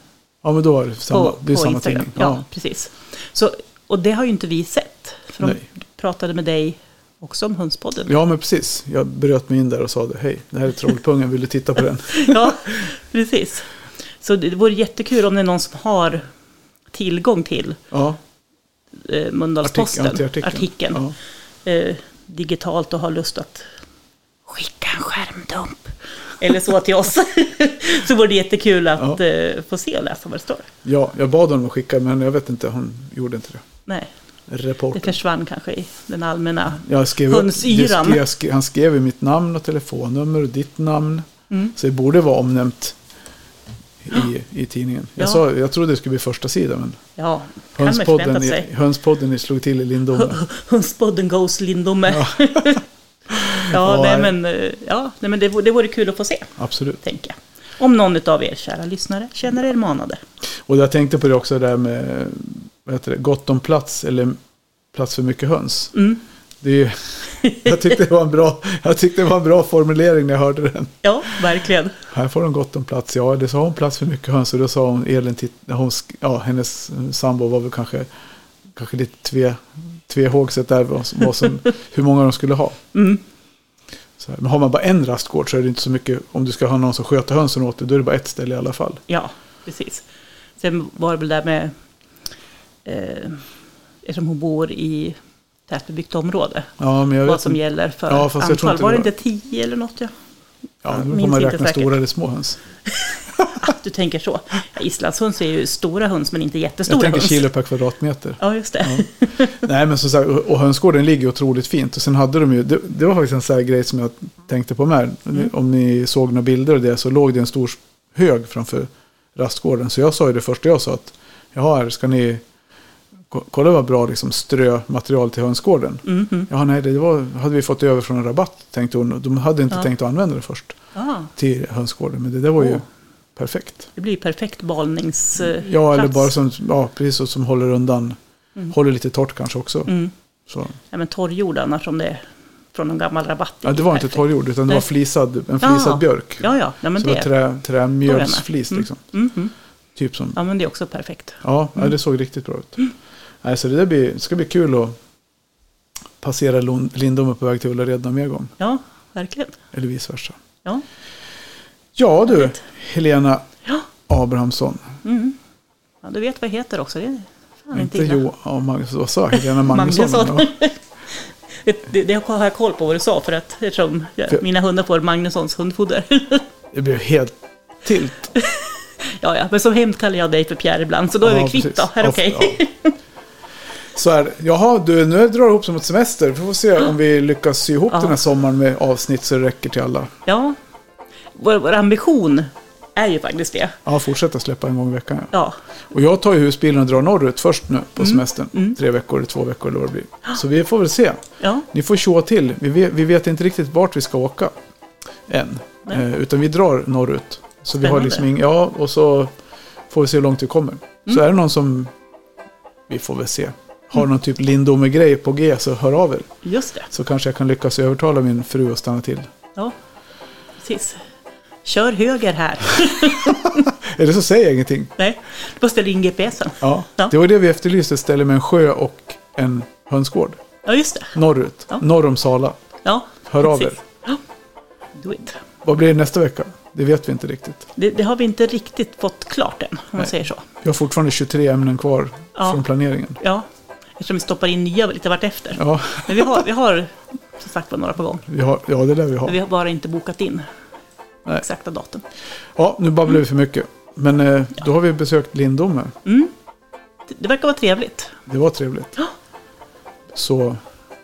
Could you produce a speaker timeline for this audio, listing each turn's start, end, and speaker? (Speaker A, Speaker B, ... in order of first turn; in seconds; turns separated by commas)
Speaker A: 0.4-2.4, Speaker B: 1.1-8.1, Speaker A: 5.4-5.7, Speaker A: 8.1-12.8, Speaker B: 12.2-13.7, Speaker B: 14.2-16.3, Speaker B: 16.9-17.8, Speaker A: 17.9-18.2, Speaker B: 19.0-21.0, Speaker A: 19.6-21.1, Speaker B: 21.6-23.7, Speaker B: 24.5-30.7, Speaker A: 30.8-33.6, Speaker B: 33.9-34.1, Speaker A: 34.5-35.1, Speaker B: 34.9-38.2, Speaker A: 36.8-43.0, Speaker A: 44.0-47.0, Speaker B: 45.2-45.4, Speaker B: 47.2-48.7, Speaker A: 47.7-50.4, Speaker B: 50.1-52.8, Speaker A: 52.1-52.7, Speaker B: 53.5-60.2, Speaker A: 53.5-54.3, Speaker A: 56.6-57.0, Speaker A: 60.6-64.4, Speaker A: 64.9-65.9, Speaker B: 65.9-66.2, Speaker A: 66.6-70.9, Speaker B: 67.4-67.9, Speaker B: 71.0-71.9, Speaker A: 72.1-78.1, Speaker A: 78.7-82.8, Speaker B: 82.9-83.2, Speaker A: 84.2-89.0, Speaker B: 89.1-90.0, Speaker B: 90.6-91.7, Speaker B: 92.8-93.4, Speaker B: 94.0-95.2, Speaker B: 95.7-96.7, Speaker A: 96.8-99.1, Speaker B: 97.2-100.1, Speaker A: 100.8-102.6, Speaker B: 100.8-102.0, Speaker B: 102.9-107.5, Speaker A: 106.9-122.4, Speaker B: 108.4-109.6, Speaker A: 123.3-130.8, Speaker B: 126.0-126.5, Speaker B: 130.9-131.3, Speaker A: 131.3-132.8, Speaker B: 132.6-132.8, Speaker A: 133.3-133.9, Speaker B: 133.9-136.3, Speaker A: 135.4-138.2, Speaker A: 138.7-139.9, Speaker B: 139.9-140.1, Speaker A: 140.5-140.7, Speaker B: 140.9-144.9, Speaker A: 143.6-149.0, Speaker B: 145.6-147.3, Speaker B: 148.0-149.5, Speaker A: 149.9-150.4, Speaker B: 150.3-151.9, Speaker A: 151.4-152.8, Speaker A: 153.4-155.0, Speaker A: 156.2-158.5, Speaker B: 158.6-159.6, Speaker A: 159.7-160.4, Speaker A: 161.9-163.5, Speaker B: 162.3-162.6, Speaker A: 164.1-165.0, Speaker B: 165.0-165.4, Speaker B: 166.0-168.2, Speaker A: 167.7-170.5, Speaker B: 169.3-176.4, Speaker A: 176.7-178.3, Speaker B: 178.4-182.9, Speaker A: 181.2-182.6, Speaker A: 183.9-190.1, Speaker B: 187.9-188.2, Speaker B: 190.2-190.6, Speaker B: 191.3-193.8, Speaker A: 193.8-195.3, Speaker A: 195.9-204.5, Speaker B: 198.0-198.8, Speaker B: 201.4-201.7, Speaker A: 205.3-209.3, Speaker B: 207.8-208.2, Speaker A: 209.9-211.9, Speaker A: 212.9-216.3, Speaker B: 216.4-216.9, Speaker A: 216.9-219.3, Speaker B: 220.6-221.0, Speaker B: 221.6-223.7, Speaker A: 223.7-224.9, Speaker B: 225.0-227.1, Speaker A: 226.6-230.4, Speaker B: 230.7-231.1, Speaker A: 231.1-232.6, Speaker B: 232.8-234.2, Speaker A: 233.2-233.8, Speaker B: 234.9-235.4, Speaker A: 235.6-237.7, Speaker B: 237.8-240.4, Speaker A: 240.6-243.2, Speaker B: 242.3-242.6, Speaker B: 243.2-243.4, Speaker B: 244.0-248.2, Speaker A: 245.6-246.4, Speaker A: 248.2-249.4, Speaker B: 249.2-250.5, Speaker B: 251.3-252.0, Speaker A: 252.6-255.9, Speaker B: 256.0-256.3, Speaker B: 257.1-258.1, Speaker A: 258.3-259.0, Speaker A: 260.1-260.6